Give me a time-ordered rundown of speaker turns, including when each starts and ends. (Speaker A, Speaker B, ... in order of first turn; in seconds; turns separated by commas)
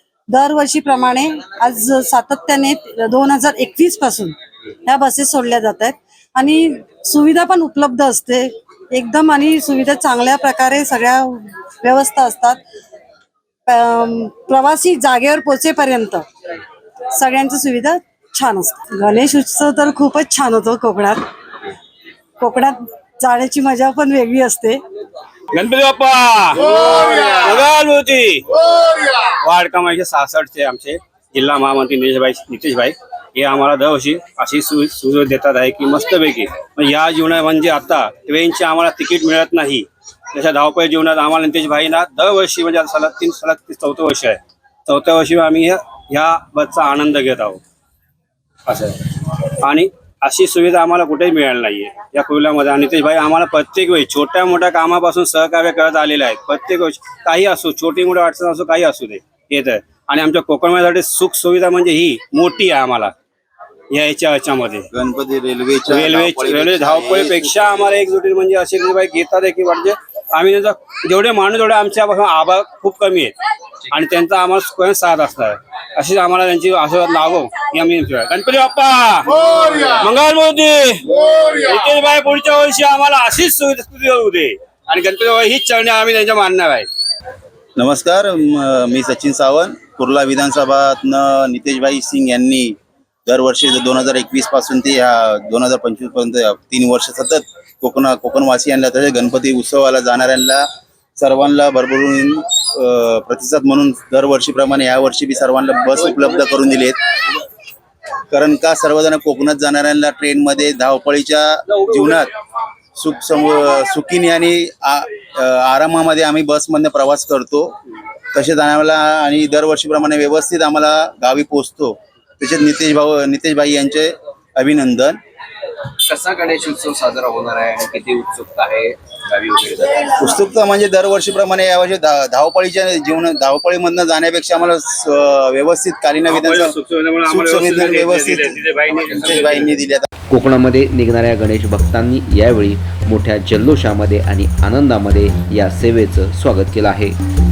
Speaker A: 0.3-12.6, Speaker A: 13.7-16.2, Speaker A: 17.1-21.2, Speaker A: 22.4-24.8, Speaker B: 25.5-28.5, Speaker B: 29.2-47.6, Speaker B: 48.7-63.1, Speaker B: 63.9-64.8, Speaker C: 64.9-67.9, Speaker B: 65.9-73.3, Speaker B: 73.9-86.9, Speaker C: 87.8-100.7, Speaker C: 101.2-107.0, Speaker C: 108.3-112.3, Speaker C: 112.9-117.7, Speaker C: 118.3-125.2, Speaker D: 126.0-129.9, Speaker C: 129.9-140.1, Speaker B: 136.2-139.8, Speaker E: 140.3-147.2